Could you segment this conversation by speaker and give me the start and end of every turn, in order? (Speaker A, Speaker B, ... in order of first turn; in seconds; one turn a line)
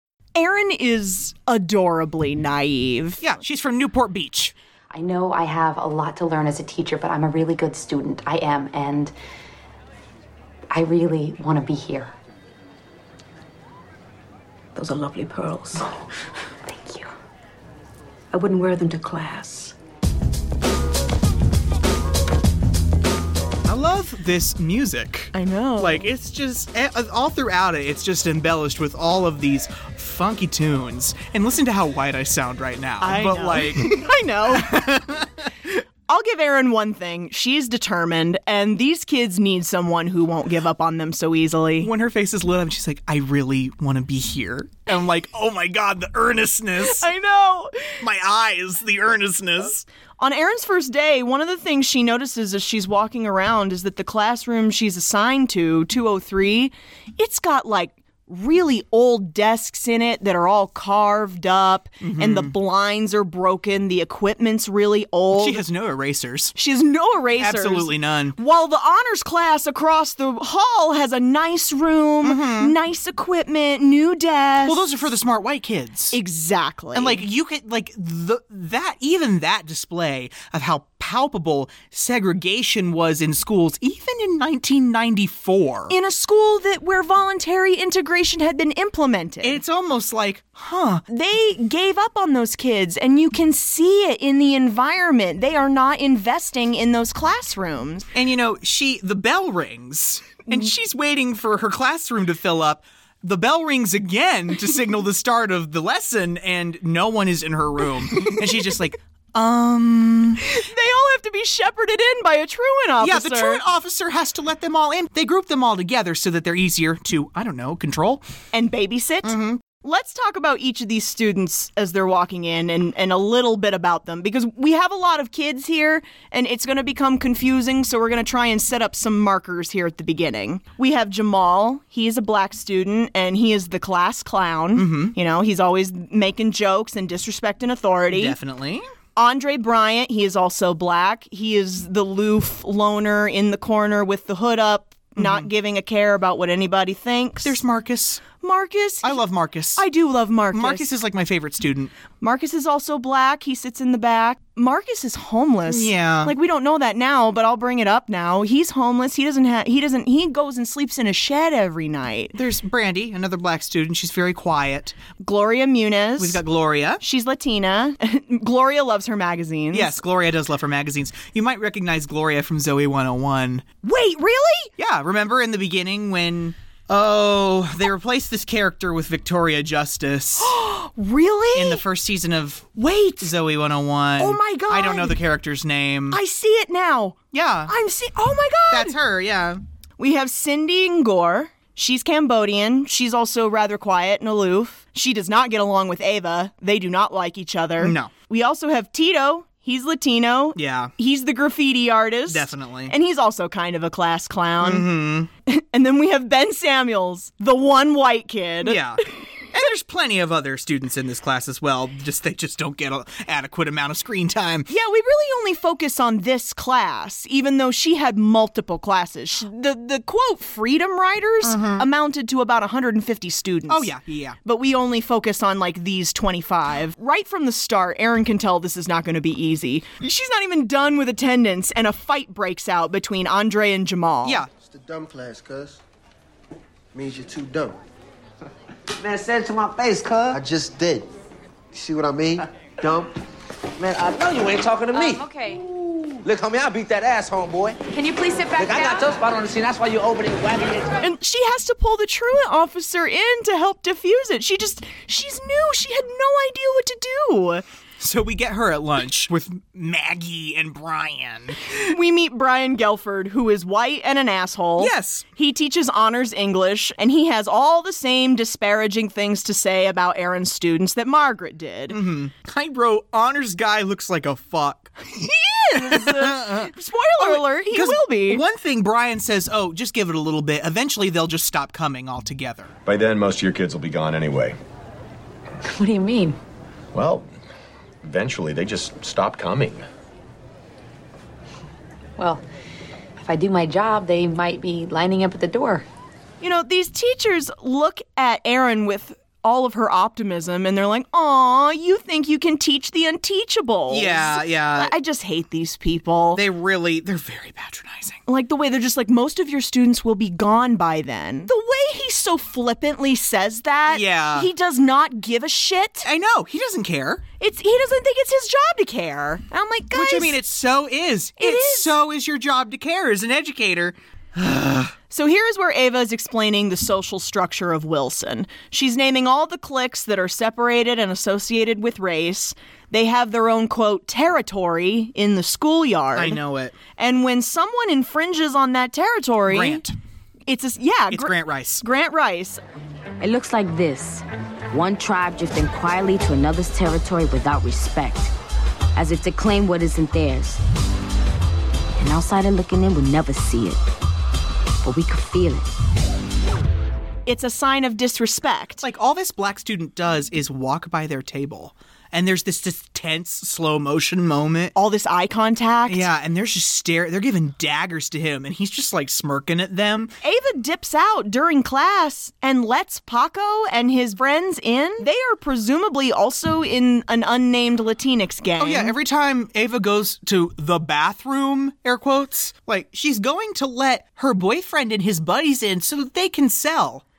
Speaker A: 0.3-3.3
Speaker B: 3.2-4.5
Speaker C: 4.9-9.1
Speaker C: 10.7-12.1
Speaker D: 14.8-15.8
Speaker C: 16.7-17.1
Speaker C: 18.4-18.6
Speaker D: 18.6-19.7
Speaker B: 23.7-35.5
Speaker A: 25.3-26.1
Speaker A: 33.0-34.8
Speaker A: 36.1-41.9
Speaker B: 41.8-47.1
Speaker A: 46.8-48.0
Speaker B: 48.0-49.8
Speaker A: 50.2-65.6
Speaker B: 62.0-62.5
Speaker B: 65.3-66.5
Speaker A: 66.6-74.8
Speaker B: 67.4-68.4
Speaker B: 72.2-72.8
Speaker B: 74.6-76.2
Speaker A: 76.1-77.2
Speaker B: 76.9-85.9
Speaker A: 85.9-89.6
Speaker B: 89.4-91.0
Speaker A: 91.1-98.1
Speaker B: 98.1-110.4
Speaker A: 110.5-113.6
Speaker B: 113.0-118.2
Speaker A: 118.5-138.4
Speaker B: 119.2-119.6
Speaker B: 134.8-135.1
Speaker B: 138.1-138.9
Speaker A: 139.2-147.6
Speaker B: 145.2-145.5
Speaker B: 147.4-148.2
Speaker A: 148.4-149.2
Speaker B: 149.0-149.8
Speaker A: 149.8-150.9
Speaker B: 150.5-151.9
Speaker A: 152.2-162.3
Speaker B: 155.7-156.3
Speaker B: 162.3-165.0
Speaker A: 165.2-166.4
Speaker B: 166.2-167.0
Speaker A: 167.0-170.0
Speaker B: 169.7-173.6
Speaker A: 173.8-174.7
Speaker B: 174.8-180.5
Speaker A: 180.4-181.8
Speaker B: 181.5-186.2
Speaker A: 182.8-183.3
Speaker A: 184.2-185.2
Speaker A: 186.1-188.9
Speaker B: 187.3-187.7
Speaker B: 188.7-189.6
Speaker A: 190.0-204.9
Speaker B: 197.8-198.1
Speaker B: 200.6-200.9
Speaker B: 202.3-202.9
Speaker B: 204.6-205.3
Speaker A: 205.5-208.8
Speaker B: 208.6-214.7
Speaker A: 214.7-223.9
Speaker B: 221.4-221.9
Speaker B: 223.7-224.4
Speaker A: 224.4-234.4
Speaker E: 234.7-235.7
Speaker E: 236.9-237.7
Speaker F: 239.0-240.4
Speaker E: 240.3-241.0
Speaker E: 241.8-242.3
Speaker F: 243.8-245.2
Speaker G: 244.9-245.6
Speaker F: 246.2-247.8
Speaker G: 247.9-249.2
Speaker F: 248.6-250.9
Speaker A: 251.0-257.6
Speaker B: 258.0-261.6
Speaker A: 261.7-272.0
Speaker B: 264.8-265.3
Speaker B: 271.9-282.7
Speaker A: 275.4-278.4
Speaker H: 282.9-284.6
Speaker C: 285.6-286.4
Speaker H: 286.9-287.3
Speaker H: 288.0-289.9
Speaker C: 292.2-292.4
Speaker C: 293.2-295.9
Speaker A: 296.4-306.4
Speaker B: 303.9-304.9
Speaker B: 306.3-308.2
Speaker A: 308.3-316.1
Speaker B: 313.9-314.5
Speaker B: 316.1-317.2
Speaker A: 317.4-320.4
Speaker B: 319.9-324.9
Speaker A: 321.4-321.9
Speaker A: 325.1-336.4
Speaker B: 336.1-336.8
Speaker A: 337.0-339.8
Speaker B: 339.5-339.9
Speaker A: 340.5-342.6
Speaker B: 341.1-341.8
Speaker I: 343.2-348.3
Speaker I: 348.9-350.6
Speaker I: 352.0-353.8
Speaker I: 354.8-355.7
Speaker A: 357.3-358.8
Speaker B: 358.8-364.7
Speaker A: 364.8-366.1
Speaker B: 365.9-370.1
Speaker A: 370.2-378.9
Speaker B: 378.6-387.0